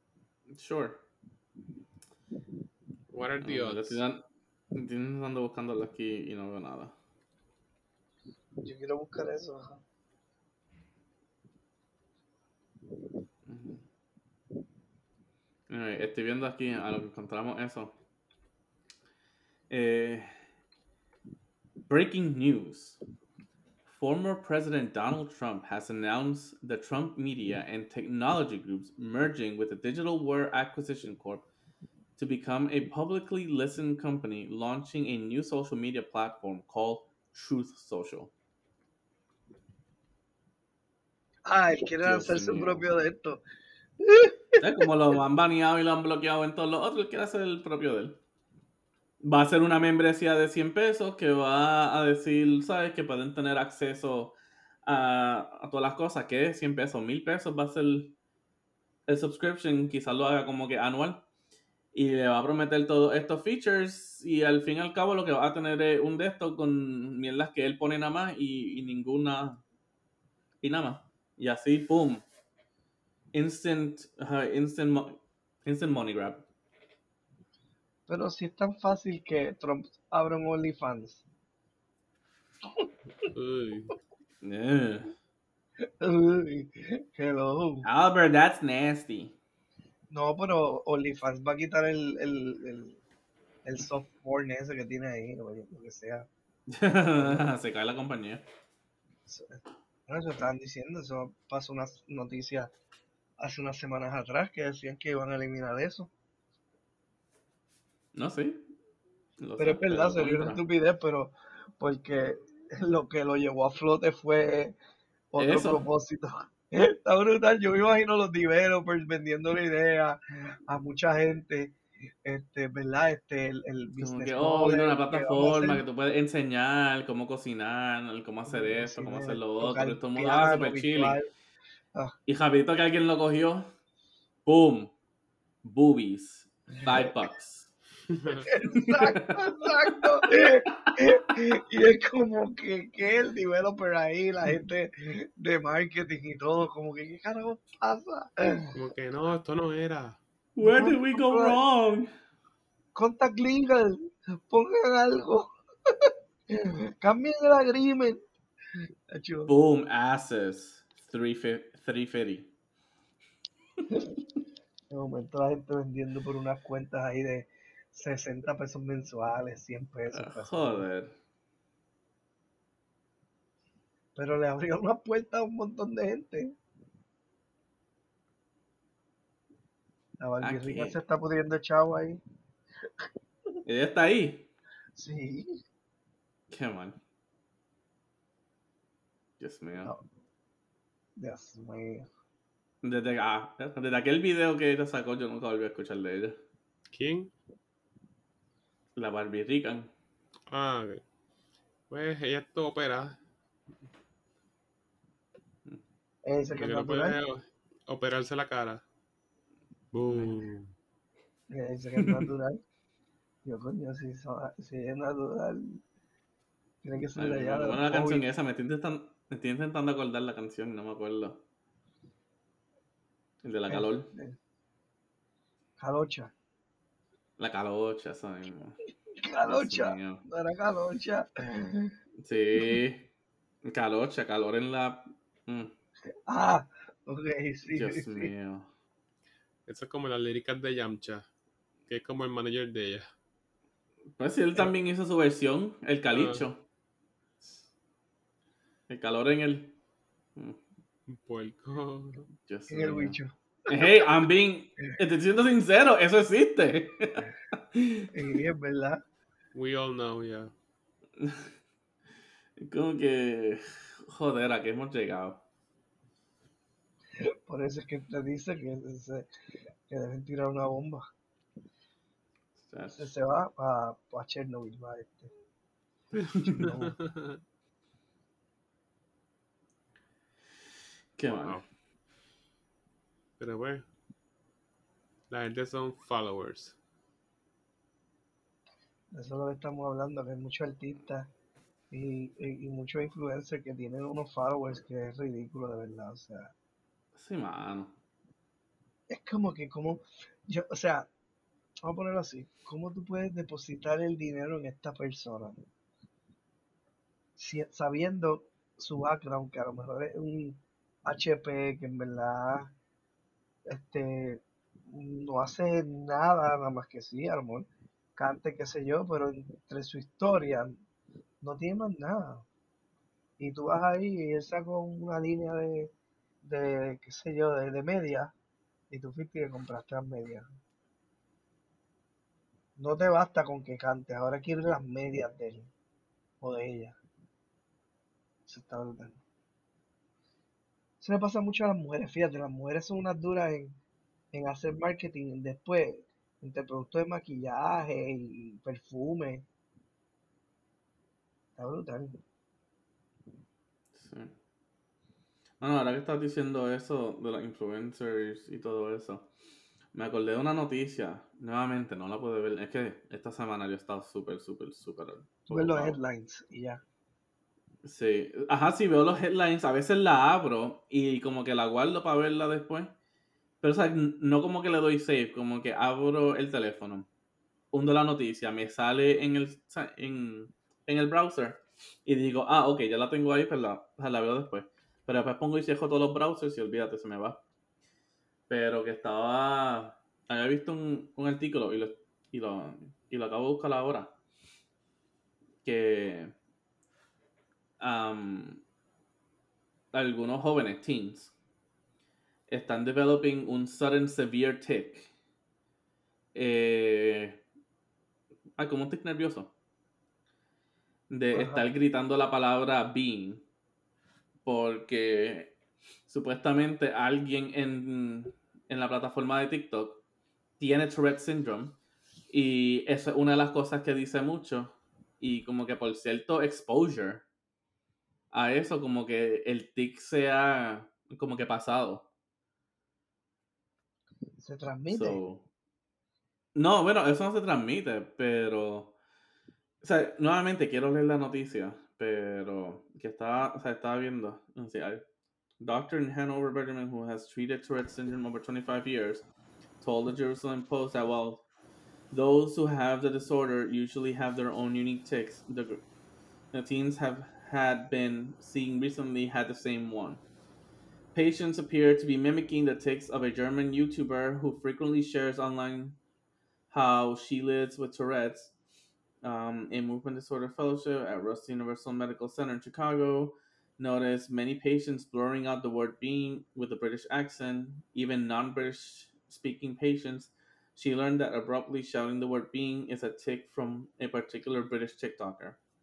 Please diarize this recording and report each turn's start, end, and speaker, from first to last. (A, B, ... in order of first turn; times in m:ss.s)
0:00.5-0:01.0 A
0:03.1-0:04.0 B
0:03.4-0:04.2 A
0:04.7-0:07.0 A
0:08.6-0:09.8 C
0:13.5-0:13.8 A
0:15.7-0:17.9 A
0:19.7-0:20.4 A
0:21.9-0:23.0 A
0:23.9-0:31.4 A
0:32.2-0:38.3 A
0:41.5-0:43.4 C
0:42.0-0:42.8 A
0:44.0-0:44.6 C
0:44.6-0:48.2 A
0:49.2-0:58.2 A
0:59.1-1:01.2 A
1:01.9-1:09.6 A
1:10.6-1:12.2 A
1:13.3-1:16.4 A
1:18.1-1:21.2 C
1:23.3-1:23.9 B
1:24.4-1:25.2 A
1:26.0-1:27.9 C
1:27.8-1:29.4 A
1:30.1-1:33.0 C
1:33.6-1:36.3 C
1:36.7-1:38.5 A
1:37.2-1:37.5 C
1:39.3-1:42.7 C
1:43.4-1:46.1 C
1:48.1-1:48.7 A
1:49.4-1:50.6 A
1:49.6-1:54.8 C
1:55.3-2:05.8 C
1:55.4-1:55.8 A
2:04.0-2:11.2 A
2:08.5-2:11.3 C
2:12.3-2:13.7 A
2:14.5-2:14.9 A
2:15.6-2:17.7 A
2:18.1-2:18.4 B
2:18.4-2:28.7 C
2:18.7-2:19.2 A
2:20.7-2:21.0 A
2:28.7-2:30.2 B
2:30.6-2:32.1 A
2:30.6-2:31.6 C
2:33.0-2:38.2 C
2:39.1-2:39.5 C
2:39.5-2:42.5 A
2:44.9-2:50.9 C
2:50.1-2:51.1 A
2:54.2-2:56.6 C
3:00.2-3:02.2 C
3:00.4-3:01.0 A
3:03.7-3:04.5 A
3:05.0-3:05.6 C
3:06.5-3:07.0 A
3:09.4-3:09.9 A
3:11.2-3:12.1 C
3:12.8-3:16.4 A
3:16.9-3:17.3 B
3:19.0-3:19.9 A
3:20.5-3:21.0 B
3:21.9-3:23.2 B
3:26.3-3:27.2 C
3:26.6-3:28.8 B
3:29.9-3:30.7 B
3:30.0-3:30.4 A
3:31.5-3:32.6 C
3:32.0-3:32.3 B
3:33.4-3:35.8 C
3:36.8-3:38.3 C
3:37.2-3:41.4 A
3:43.4-3:44.1 A
3:43.7-3:44.4 C
3:45.8-3:46.3 C
3:47.4-3:48.8 A
3:49.2-3:51.9 C
3:49.4-3:50.2 A
3:52.2-3:53.1 A
3:53.6-3:55.7 A
3:56.3-3:58.3 C
3:57.8-3:58.7 A
3:59.7-4:01.3 B
4:01.9-4:03.1 B
4:04.2-4:06.6 A
4:06.1-4:06.5 B
4:08.9-4:09.7 A
4:10.4-4:10.6 A
4:11.1-4:12.3 B
4:12.5-4:18.1 A
4:12.7-4:13.9 C
4:18.1-4:19.0 C
4:19.5-4:20.5 B
4:21.2-4:21.5 A
4:22.6-4:25.4 A
4:27.2-4:29.3 C
4:29.9-4:31.0 C
4:32.6-4:33.1 A
4:33.0-4:35.3 C
4:36.5-4:37.0 C
4:36.6-4:37.4 B
4:41.2-4:41.6 A
4:41.3-4:41.6 B
4:43.4-4:43.8 B
4:45.3-4:46.8 B
4:49.1-4:51.3 C
4:51.9-4:56.5 C
4:57.2-4:57.9 A
4:59.1-5:01.1 C
5:01.8-5:05.6 C
5:07.4-5:12.7 C
5:13.7-5:20.8 C
5:21.4-5:22.5 C
5:23.4-5:25.9 C
5:26.4-5:28.3 C
5:28.9-5:30.5 C
5:32.8-5:35.7 C
5:36.4-5:37.0 C
5:38.5-5:39.2 C
5:41.0-5:43.8 C
5:44.3-5:49.5 C
5:51.6-5:52.2 C
5:53.9-5:54.3 A
5:55.6-5:59.3 A
5:59.9-6:06.0 A
6:05.5-6:06.8 C
6:07.8-6:12.9 A
6:13.6-6:17.1 A
6:17.7-6:27.4 A
6:28.5-6:34.1 A
6:35.6-6:36.3 A
6:37.8-6:38.6 A
6:39.9-6:41.3 A
6:42.5-6:45.1 A
6:46.3-6:47.4 A
6:48.6-6:49.5 A
6:51.1-6:53.4 A
6:51.3-6:51.6 C
6:54.4-6:55.5 A
6:56.1-7:00.0 A
7:00.6-7:01.8 A
7:02.3-7:07.2 A
7:08.3-7:12.1 A
7:14.4-7:15.2 C
7:14.9-7:15.5 A
7:16.6-7:19.0 A
7:19.8-7:25.0 A
7:25.6-7:29.3 A
7:29.8-7:31.4 A
7:32.1-7:35.8 A
7:36.5-7:40.2 A
7:41.1-7:46.0 A
7:46.7-7:48.5 A
7:49.2-8:05.6 A